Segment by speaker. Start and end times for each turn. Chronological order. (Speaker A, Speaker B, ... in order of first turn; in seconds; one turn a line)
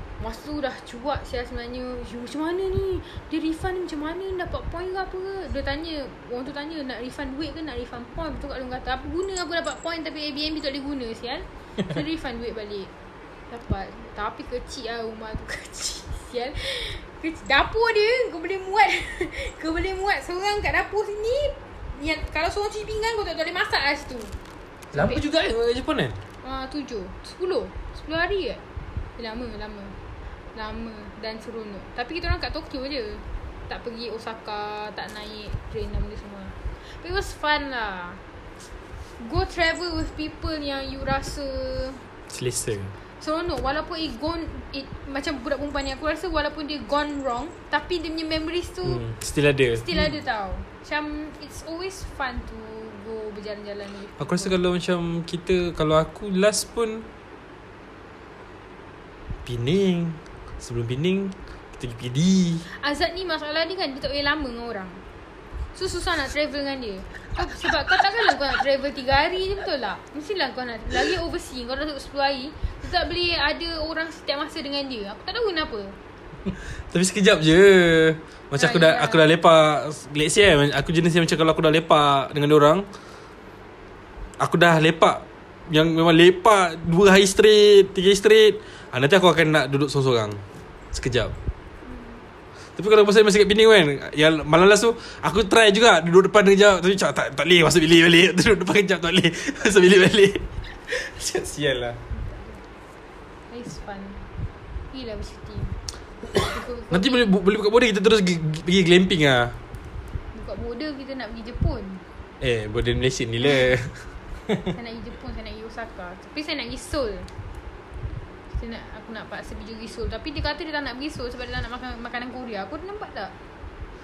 Speaker A: 0.2-12.9
Speaker A: 13.5-24.3
Speaker B: 24.9-26.2
Speaker A: 24.9-25.2
Speaker A: 26.4-28.6
Speaker A: 29.2-30.0
Speaker A: 30.5-38.2
Speaker A: 39.2-42.0
Speaker B: 42.3-42.9
Speaker A: 43.2-49.0
Speaker B: 48.9-50.1
Speaker A: 49.8-54.6
Speaker B: 54.2-57.1
Speaker B: 59.5-62.6
Speaker A: 62.7-65.0
Speaker A: 65.8-76.0
Speaker B: 76.9-82.9
Speaker A: 78.6-79.2
Speaker B: 84.4-90.4
Speaker B: 90.9-91.3
Speaker A: 91.8-92.2
Speaker B: 92.8-102.0
Speaker A: 102.1-102.6
Speaker A: 103.5-104.3
Speaker A: 104.9-105.8
Speaker A: 106.3-107.3
Speaker B: 106.9-109.6
Speaker A: 110.3-112.0
Speaker B: 112.4-114.0
Speaker A: 114.7-117.3
Speaker A: 118.5-123.3